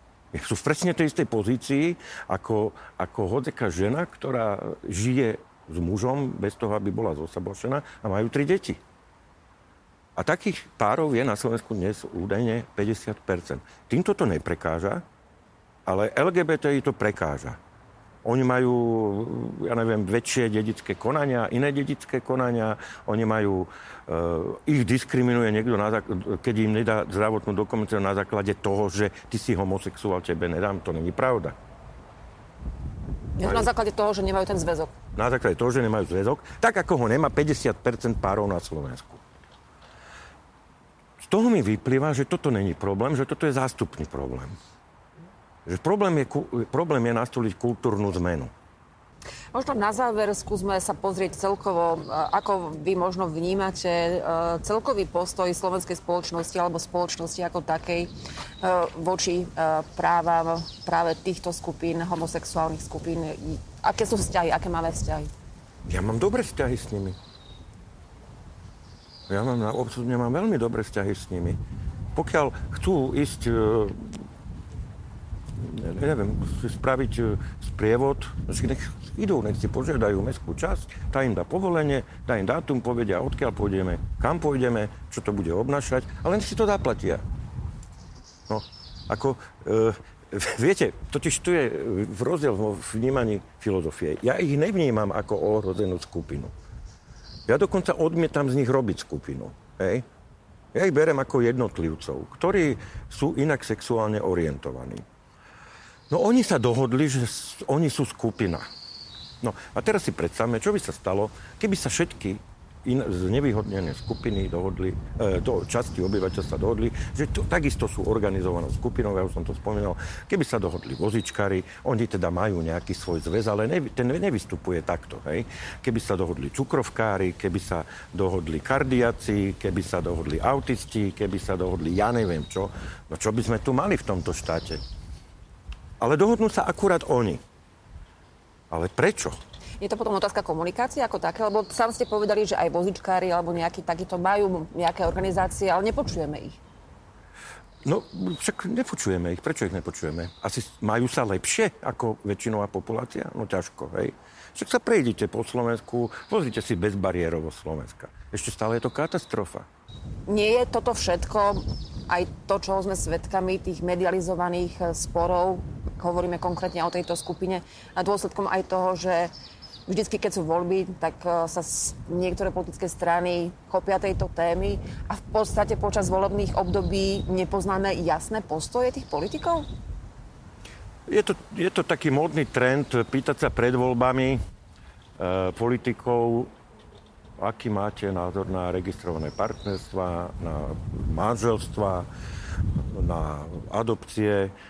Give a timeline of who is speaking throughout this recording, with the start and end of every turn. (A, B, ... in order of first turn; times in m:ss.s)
0:00.3-0:08.8 A
0:10.2-0:15.0 A
0:15.8-0:17.6 A
0:18.2-0:31.6 A
0:33.4-0:34.9 B
0:33.4-0:33.7 A
0:35.2-0:39.2 A
0:41.2-0:44.6 A
0:45.7-0:48.5 A
0:49.5-0:58.1 B
0:58.6-1:05.3 B
1:05.9-1:07.2 A
1:09.3-1:11.6 A
1:12.2-1:14.2 A
1:15.6-1:27.2 A
1:28.5-1:36.5 A
1:37.5-1:40.0 A
1:40.7-1:45.0 A
1:46.1-1:48.6 A
1:49.4-2:14.8 A
2:16.0-2:17.4 A
2:18.7-2:19.4 A
2:19.8-2:26.6 B
2:27.8-2:39.7 A
2:40.3-2:49.3 B
2:49.9-2:59.7 B
3:01.1-3:04.4 A
3:05.2-3:06.5 A
3:07.4-3:12.1 A
3:12.7-3:14.5 A